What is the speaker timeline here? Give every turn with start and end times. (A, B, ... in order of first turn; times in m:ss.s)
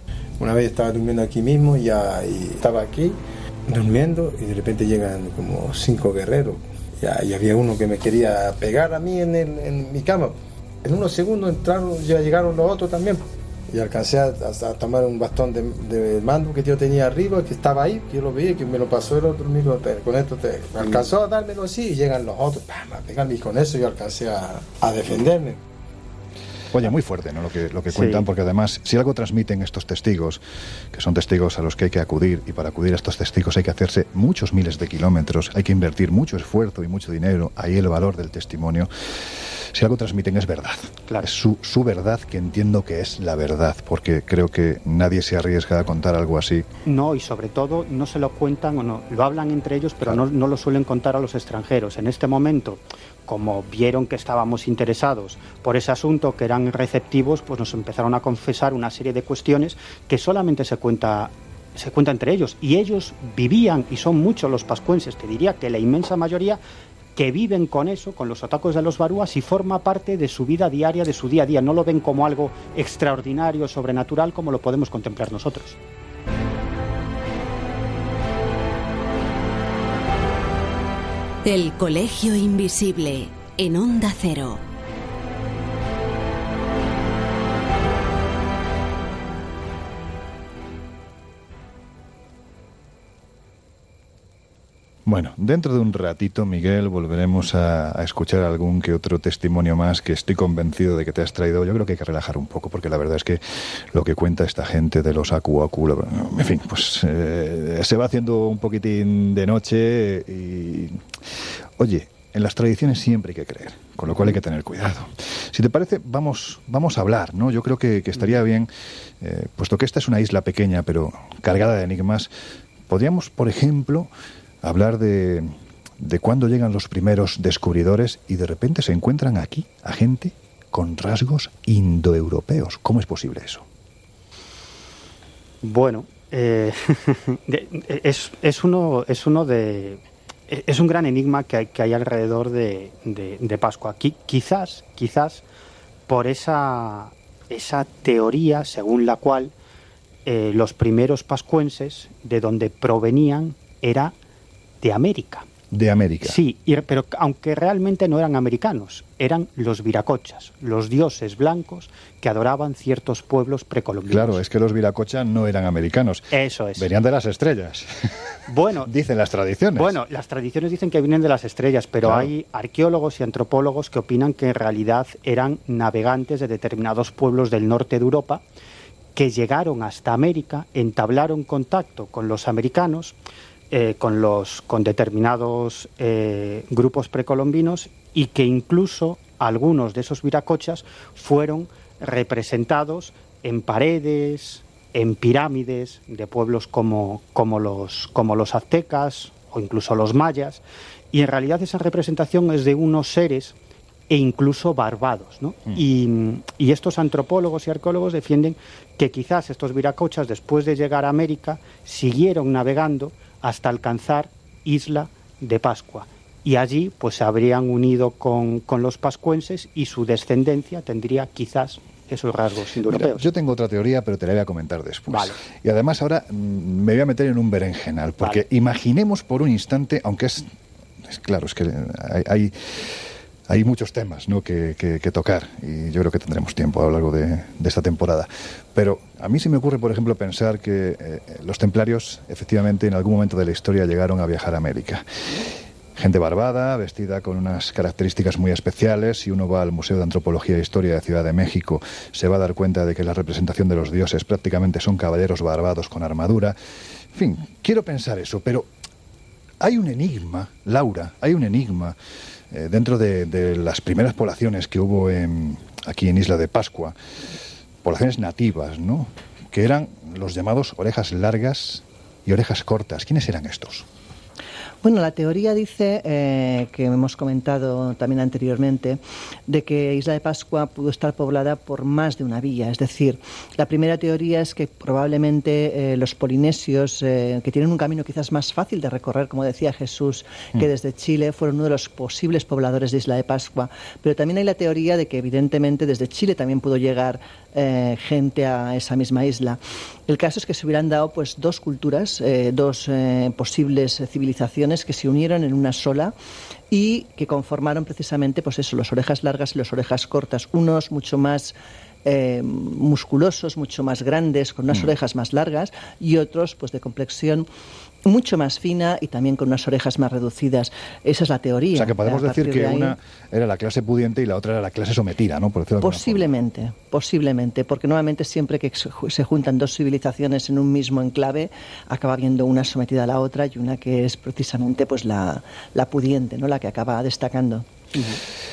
0:00.4-0:25.6 A
0:26.7-0:30.4 B
0:27.9-0:28.2 C
0:30.9-0:46.7 B
0:46.9-1:06.6 C
1:07.2-1:15.8 C
1:21.4-1:24.6 D
1:35.1-1:51.1 B
1:51.8-2:02.3 B
2:02.9-2:04.1 B
2:04.6-2:13.6 B
2:15.6-2:25.4 C
2:26.1-2:29.5 C
2:30.2-2:34.2 C
2:34.8-2:35.5 C
2:35.7-2:36.4 B
2:36.2-2:44.4 C
2:44.1-2:47.9 B
2:46.3-2:46.9 C
2:48.5-2:48.9 C
2:48.9-2:50.0 B
2:49.8-2:58.4 C
2:52.0-2:52.3 B
2:59.2-3:03.2 C
3:03.7-3:23.6 C
3:24.1-3:43.2 C
3:42.9-3:50.5 B
3:45.1-3:45.4 C
3:51.0-4:05.0 B
4:06.0-4:16.6 B
4:17.1-4:18.7 B
4:19.6-4:22.0 B
4:22.5-4:27.0 B
4:27.8-4:33.8 B
4:34.8-5:06.2 E
5:06.7-5:17.5 E
5:18.1-5:23.0 E
5:21.7-5:26.3 B
5:25.8-5:37.7 E
5:38.0-5:38.2 C